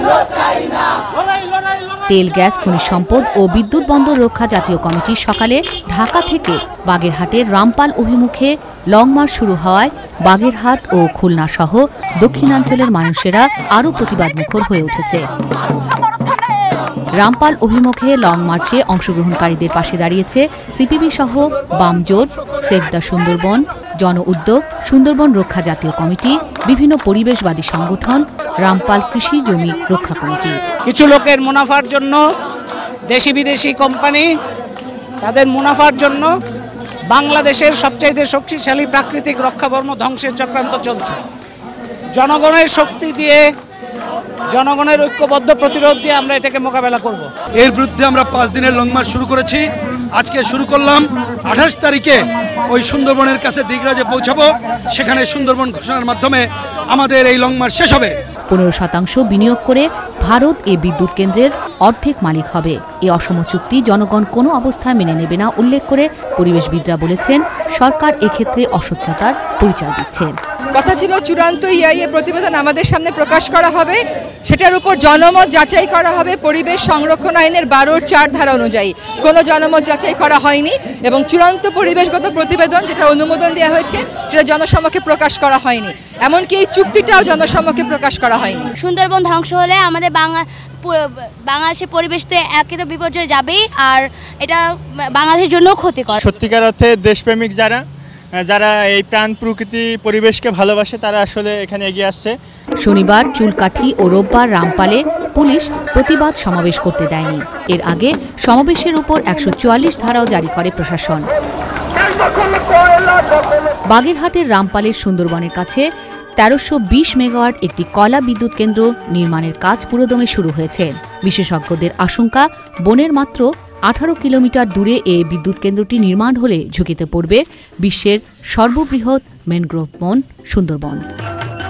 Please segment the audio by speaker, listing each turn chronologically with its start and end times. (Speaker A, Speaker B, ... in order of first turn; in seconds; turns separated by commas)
Speaker A: 2.1-15.2, Speaker A: 17.2-30.6, Speaker B: 30.9-32.2, Speaker B: 33.1-34.3, Speaker B: 35.2-36.3, Speaker B: 37.1-41.2, Speaker B: 42.1-43.5, Speaker B: 44.5-47.3, Speaker C: 47.6-49.6, Speaker C: 50.2-58.1, Speaker A: 58.5-70.3, Speaker D: 70.7-88.7, Speaker E: 88.8-96.2, Speaker F: 96.2-97.8, Speaker F: 98.4-102.4, Speaker A: 102.8-111.2, Speaker A: 113.9-115.9, Speaker A: 116.4-131.0